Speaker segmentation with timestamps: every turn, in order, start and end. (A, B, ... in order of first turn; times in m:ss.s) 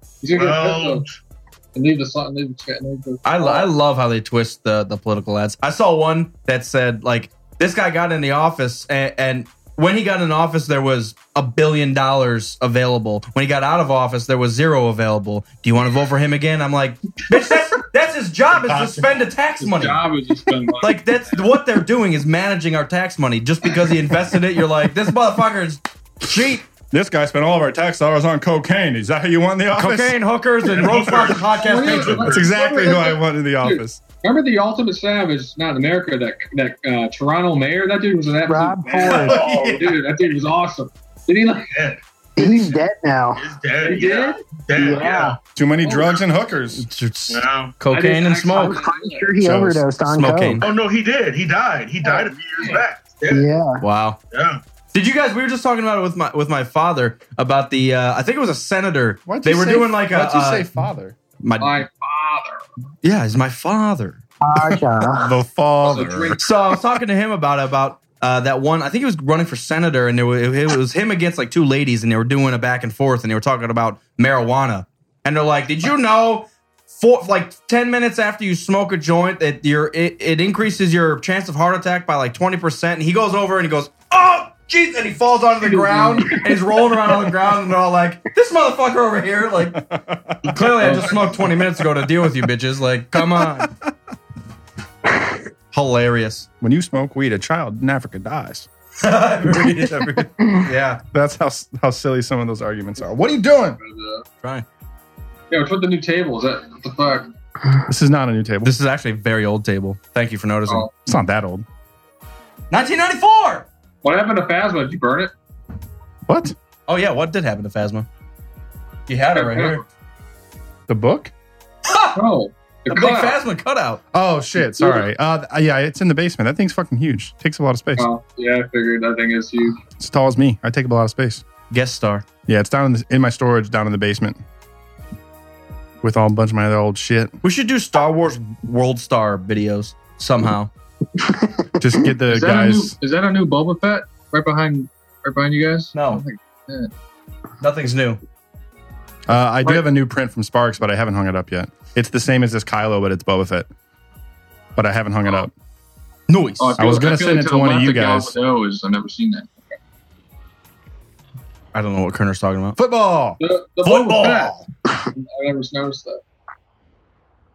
0:00.2-0:01.0 A
0:00.3-0:01.1 B
0:01.7-0:03.7 A
0:03.2-0:20.0 C
0:18.7-0:19.1 B
0:19.6-0:21.4 A
0:20.8-0:26.7 C
0:26.9-0:30.2 D
0:29.7-0:32.3 C
0:30.6-0:32.5 B
0:31.6-0:41.7 A
0:32.3-0:34.0 D
0:38.4-0:39.4 E
0:39.1-0:39.8 C
0:39.2-0:39.8 B
0:41.7-0:42.8 B
0:42.4-0:43.4 E
0:43.3-0:45.4 B
0:43.8-0:44.4 A
0:44.7-0:45.4 E
0:45.5-0:46.8 D
0:45.8-0:46.2 A
0:46.8-0:48.8 C
0:47.3-0:47.7 B
0:47.9-0:49.3 A
0:48.5-0:50.6 E
0:49.4-0:49.8 D
0:50.1-0:50.6 C
0:50.6-0:53.5 B
0:52.0-0:52.8 A
0:53.3-0:53.8 E
0:53.8-0:54.2 C
0:54.3-0:54.6 B
0:54.9-1:00.7 C
0:59.2-1:01.2 D
1:01.4-1:01.8 C
1:01.6-1:02.6 A
1:03.0-1:04.2 C
1:04.4-1:05.3 E
1:04.7-1:06.4 D
1:05.8-1:06.5 A
1:06.4-1:29.8 C
1:25.9-1:26.3 A
1:29.7-1:31.0 D
1:30.4-1:33.7 C
1:30.8-1:31.4 A
1:33.4-1:33.9 D
1:35.7-1:36.5 C
1:36.6-1:38.7 D
1:39.0-1:41.0 C
1:41.1-1:43.8 D
1:43.0-1:44.2 A
1:45.5-1:47.3 A
1:47.9-1:48.7 D
1:48.6-1:50.9 C
1:51.0-1:51.6 D
1:52.7-1:53.7 C
1:54.0-1:55.3 A
1:56.3-1:56.5 D
1:56.9-1:58.1 C
1:59.1-1:59.8 C
1:59.3-1:59.8 A
2:00.9-2:01.3 D
2:01.9-2:02.2 C
2:02.1-2:03.4 A
2:02.9-2:04.0 C
2:04.1-2:08.1 D
2:04.6-2:05.1 A
2:08.0-2:09.8 A
2:10.0-2:11.4 D
2:11.7-2:12.2 C
2:12.5-2:14.4 D
2:16.0-2:17.4 D
2:17.4-2:20.7 C
2:21.8-2:22.9 D
2:22.3-2:26.9 A
2:25.9-2:26.2 C
2:27.6-2:28.2 C
2:29.3-2:33.7 D
2:34.8-2:35.5 D
2:36.3-2:36.8 C
2:36.6-2:39.8 A
2:36.8-2:38.3 D
2:41.7-2:42.8 C
2:42.8-2:43.4 D
2:43.4-2:46.2 A
2:43.8-2:44.6 C